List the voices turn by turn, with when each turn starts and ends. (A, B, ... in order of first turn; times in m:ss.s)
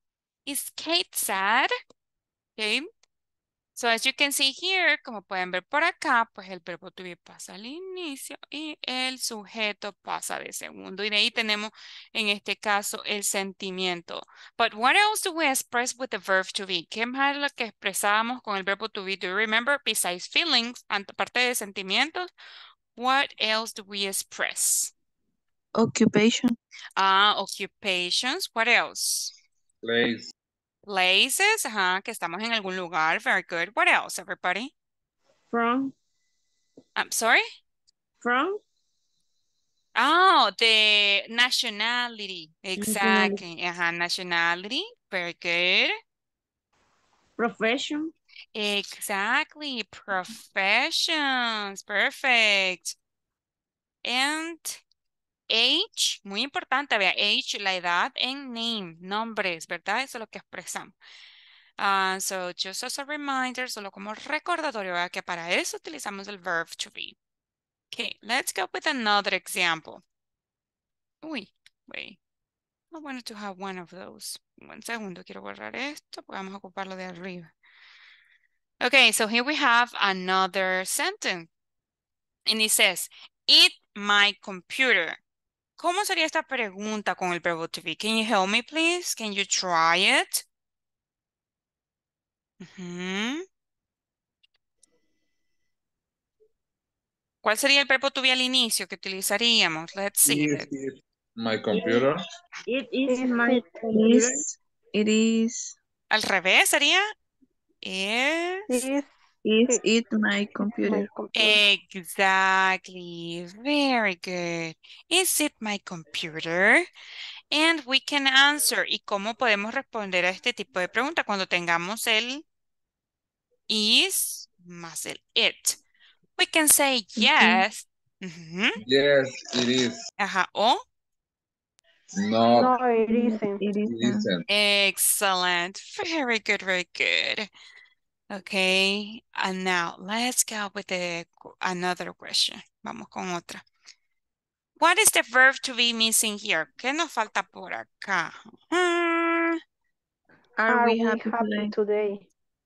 0:00.4-0:01.7 A
0:02.6-0:02.9 A
0:03.8-0:22.3 A
0:23.0-0:24.9 A
0:25.7-0:26.5 B
0:27.0-0:29.3 A
0:29.8-0:30.3 C
0:30.8-0:34.7 A
0:35.5-0:35.9 D
0:37.0-0:37.4 A
0:38.2-0:38.6 D
0:39.9-0:45.9 A
0:42.8-0:43.4 D
0:47.4-0:48.1 D
0:48.5-0:52.9 A
0:54.0-0:54.8 A
0:55.5-1:01.0 A
1:01.8-1:07.2 A
1:07.9-1:10.0 A
1:11.2-1:12.2 A
1:12.9-1:17.5 A
1:18.8-1:21.5 A
1:22.5-1:25.2 A
1:25.8-1:30.4 A
1:32.6-1:33.4 A
1:37.4-1:40.7 A
1:40.2-1:42.2 C
1:42.7-1:44.4 D
1:43.1-1:43.8 E
1:43.9-1:45.7 B
1:46.1-1:47.0 A
1:47.8-1:48.9 A
1:48.7-1:49.1 E
1:49.4-1:51.1 B
1:50.8-1:51.6 E
1:51.3-1:56.8 A
1:57.5-2:02.4 A
2:03.7-2:05.8 A
2:06.4-2:08.8 A
2:07.2-2:07.6 B
2:08.8-2:10.0 C
2:10.2-2:10.8 A
2:12.1-2:12.7 C
2:12.5-2:13.6 E
2:13.1-2:14.3 B
2:13.9-2:14.4 C
2:14.5-2:17.5 A
2:18.3-2:23.6 A
2:24.8-2:29.6 A
2:30.6-2:31.7 B
2:30.7-2:32.2 E